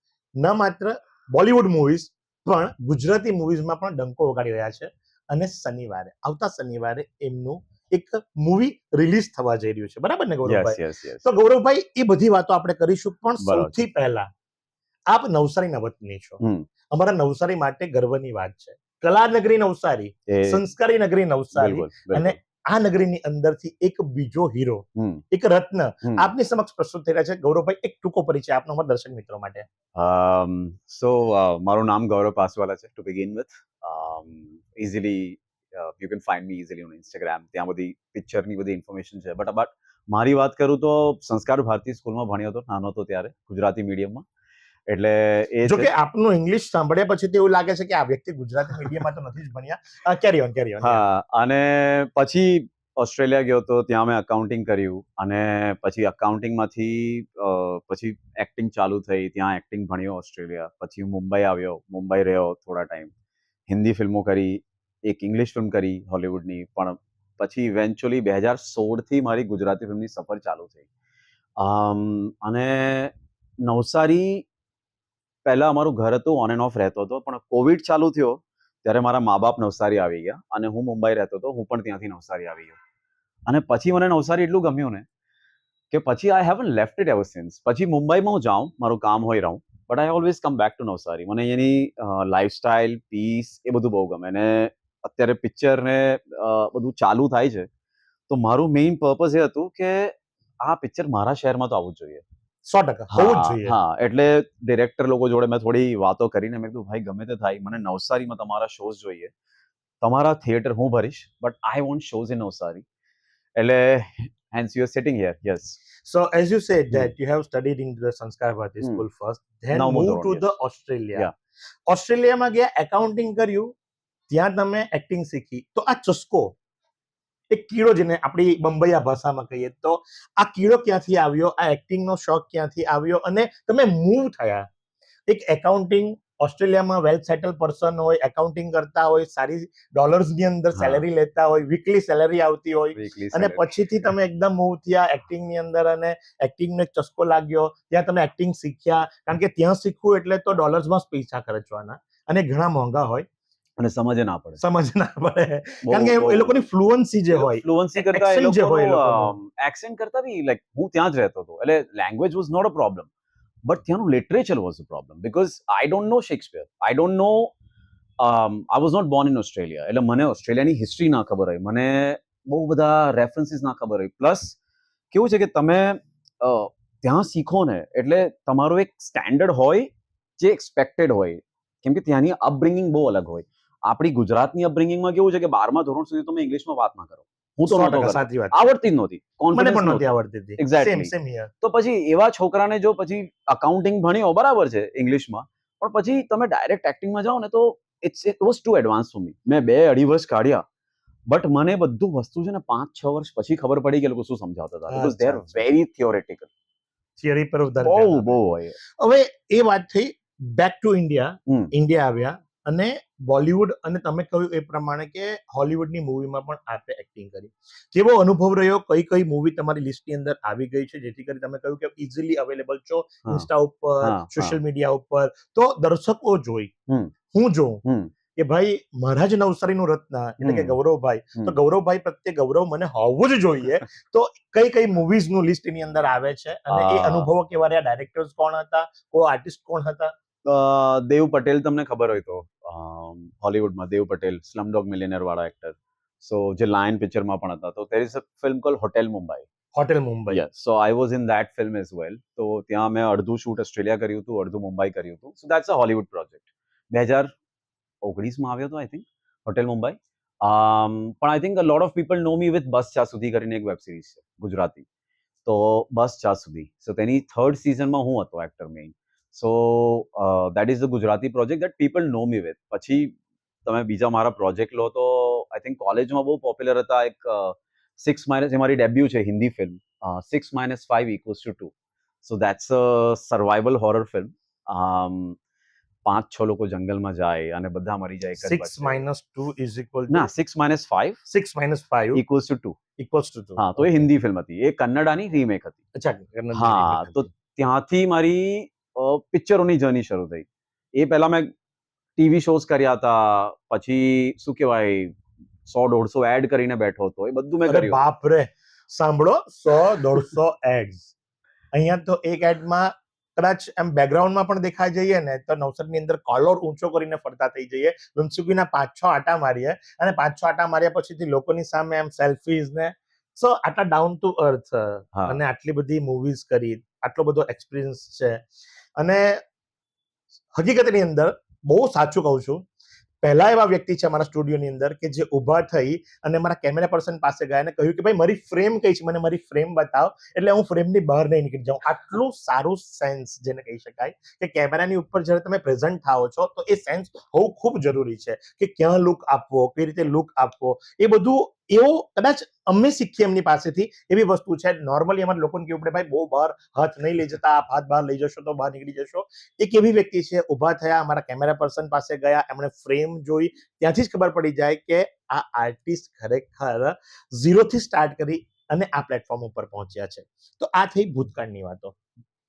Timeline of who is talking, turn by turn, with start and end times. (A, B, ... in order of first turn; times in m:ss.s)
0:00.4-0:14.3 A
0:10.4-0:11.2 B
0:13.4-0:13.8 B
0:15.1-0:16.4 A
0:16.4-0:16.7 B
0:16.9-0:29.6 A
0:20.3-0:20.6 B
0:21.5-0:22.4 B
0:25.0-0:25.2 B
0:26.0-0:26.3 B
0:30.0-0:44.2 B
0:44.9-0:45.9 B
0:45.6-0:51.0 A
0:50.8-1:03.1 B
1:03.7-1:10.8 B
1:11.6-1:13.1 B
1:13.6-1:14.4 B
1:15.4-1:22.8 B
1:23.5-1:25.1 B
1:25.9-1:37.7 B
1:38.3-1:42.2 B
1:42.6-1:43.8 A
1:43.1-1:49.3 B
1:50.0-1:52.8 B
1:53.6-1:55.8 B
1:56.0-2:01.3 A
1:59.7-2:00.5 B
2:01.9-2:03.7 A
2:04.3-2:06.5 A
2:07.5-2:14.7 A
2:15.3-2:33.2 A
2:20.7-2:21.0 B
2:22.9-2:23.7 B
2:33.8-2:34.6 B
2:34.6-2:39.4 A
2:35.8-2:36.6 B
2:37.3-2:43.1 B
2:43.7-2:47.5 B
2:48.2-2:54.6 B
2:55.1-3:10.0 B
3:07.6-3:08.6 A
3:09.5-3:11.5 A
3:10.6-3:20.6 B
3:21.3-3:26.5 B
3:24.9-3:25.7 A
3:27.2-3:28.4 A
3:27.8-3:28.8 B
3:29.0-3:46.7 A
3:44.0-3:44.6 B
3:47.3-3:47.8 A
3:47.8-3:48.1 B
3:48.4-4:00.1 A
3:50.4-3:50.8 B
3:56.7-3:57.3 B
4:00.4-4:09.4 B
4:09.7-4:10.4 A
4:10.3-4:17.3 B
4:18.0-4:24.8 B
4:25.4-4:33.1 B
4:33.6-4:41.7 B
4:42.2-4:45.4 B
4:46.0-4:49.0 B
4:48.4-4:50.3 A
4:50.1-4:51.2 B
4:51.3-4:52.2 A
4:52.1-4:52.8 B
4:53.0-4:54.0 A
4:53.6-4:55.8 B
4:56.0-4:57.3 A
4:56.5-5:01.5 B
5:02.2-5:08.0 B
5:07.6-5:11.1 A
5:11.7-5:28.4 A
5:25.1-5:25.4 B
5:29.0-5:29.4 A
5:30.6-5:32.6 A
5:33.2-6:12.0 A